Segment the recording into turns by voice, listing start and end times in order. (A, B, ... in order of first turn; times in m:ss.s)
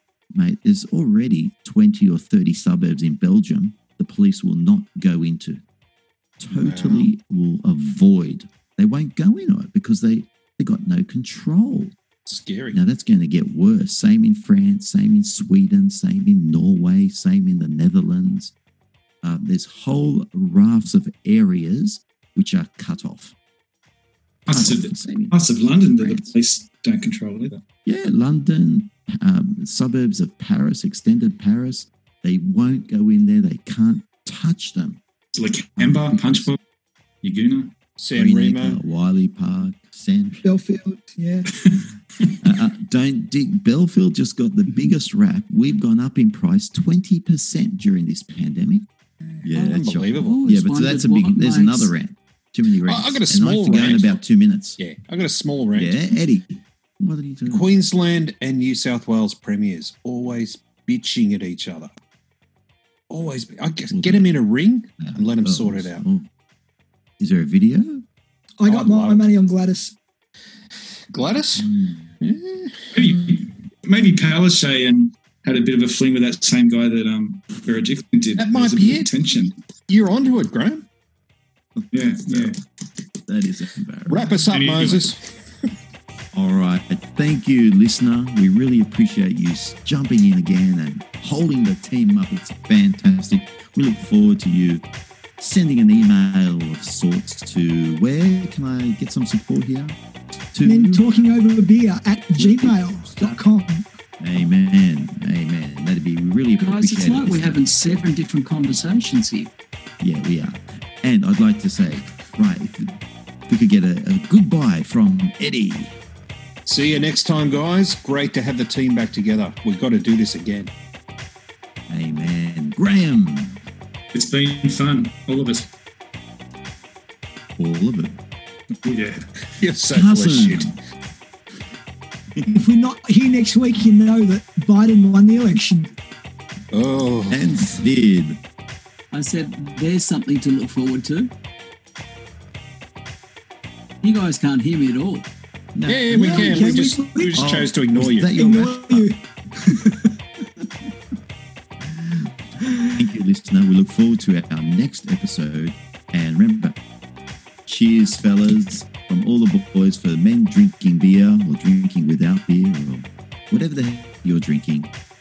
0:00.3-0:05.6 A
0:06.4-0:11.9 A
0:06.6-0:07.1 B
0:12.2-0:12.8 B
0:12.7-0:18.5 A
0:19.2-0:23.3 A
0:24.5-0:26.3 A
0:24.5-0:27.6 C
0:27.8-0:35.0 A
0:35.3-0:36.6 C
0:35.8-0:36.5 A
0:37.2-0:37.7 C
0:38.0-0:38.8 B
0:38.1-0:40.4 A
0:40.4-0:41.5 D
0:41.7-0:42.3 C
0:42.4-0:48.8 A
0:49.4-0:54.8 A
0:49.5-0:50.3 B
0:50.2-0:51.9 E
0:52.8-0:54.2 B
0:54.8-0:56.0 B
0:55.7-0:57.7 A
0:57.5-1:01.9 B
1:03.1-1:06.0 B
1:03.9-1:04.3 A
1:05.0-1:06.2 A
1:07.2-1:08.0 A
1:08.6-1:09.9 D
1:08.7-1:09.2 B
1:11.1-1:11.7 B
1:11.6-1:12.1 A
1:12.2-1:12.9 B
1:12.9-1:19.5 C
1:18.4-1:19.1 B
1:19.9-1:20.8 B
1:21.9-1:22.6 C
1:22.3-1:22.5 A
1:23.2-1:24.5 A
1:24.1-1:25.2 B
1:24.5-1:25.1 C
1:26.3-1:34.8 A
1:35.4-1:40.0 A
1:40.5-1:41.0 A
1:40.6-1:43.8 D
1:42.4-1:42.8 A
1:44.2-1:48.0 A
1:46.6-1:49.5 E
1:50.0-1:53.0 A
1:53.5-1:56.0 A
1:56.6-2:00.7 B
2:01.9-2:03.6 A
2:04.1-2:05.7 C
2:07.6-2:08.2 A
2:08.8-2:09.2 C
2:09.6-2:10.7 B
2:09.9-2:10.7 A
2:12.4-2:15.9 D
2:16.7-2:17.5 B
2:17.3-2:18.4 A
2:19.1-2:21.3 E
2:24.0-2:25.3 E
2:25.7-2:26.8 A
2:25.9-2:28.4 B
2:26.1-2:27.5 D
2:27.3-2:29.1 A
2:28.3-2:30.1 D
2:32.9-2:36.8 A
2:37.7-2:44.9 A